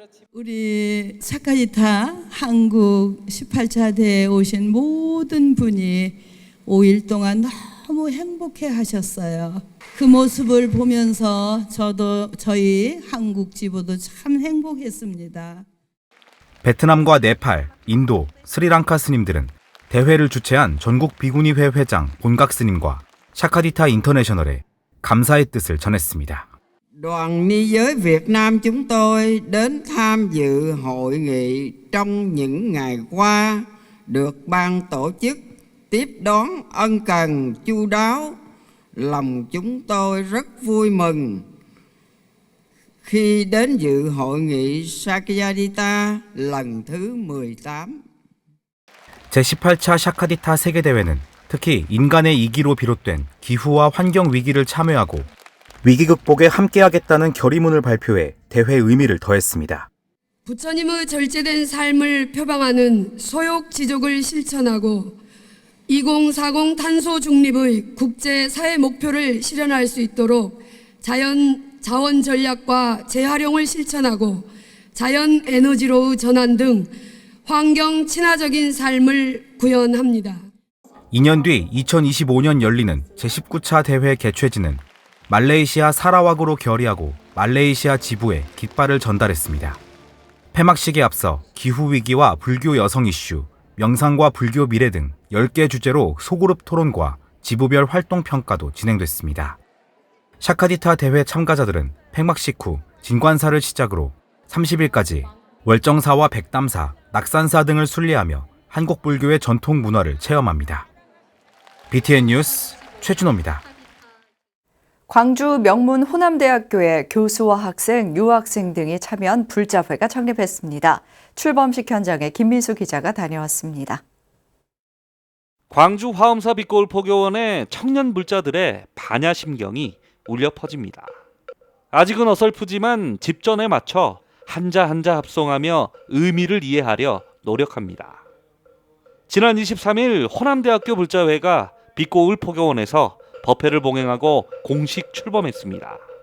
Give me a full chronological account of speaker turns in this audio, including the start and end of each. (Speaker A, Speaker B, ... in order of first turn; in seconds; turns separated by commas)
Speaker A: 0.3-15.7, Speaker B: 16.6-26.5, Speaker C: 27.0-38.4, Speaker C: 39.0-41.5, Speaker C: 43.0-48.0, Speaker B: 49.3-55.3, Speaker B: 55.8-59.9, Speaker D: 60.5-65.2, Speaker D: 65.9-76.9, Speaker D: 77.5-80.5, Speaker B: 81.1-89.8, Speaker B: 90.5-99.6, Speaker B: 100.4-110.9, Speaker B: 111.9-113.6, Speaker E: 115.1-124.0, Speaker F: 125.7-131.1, Speaker F: 131.9-138.2, Speaker F: 139.3-146.0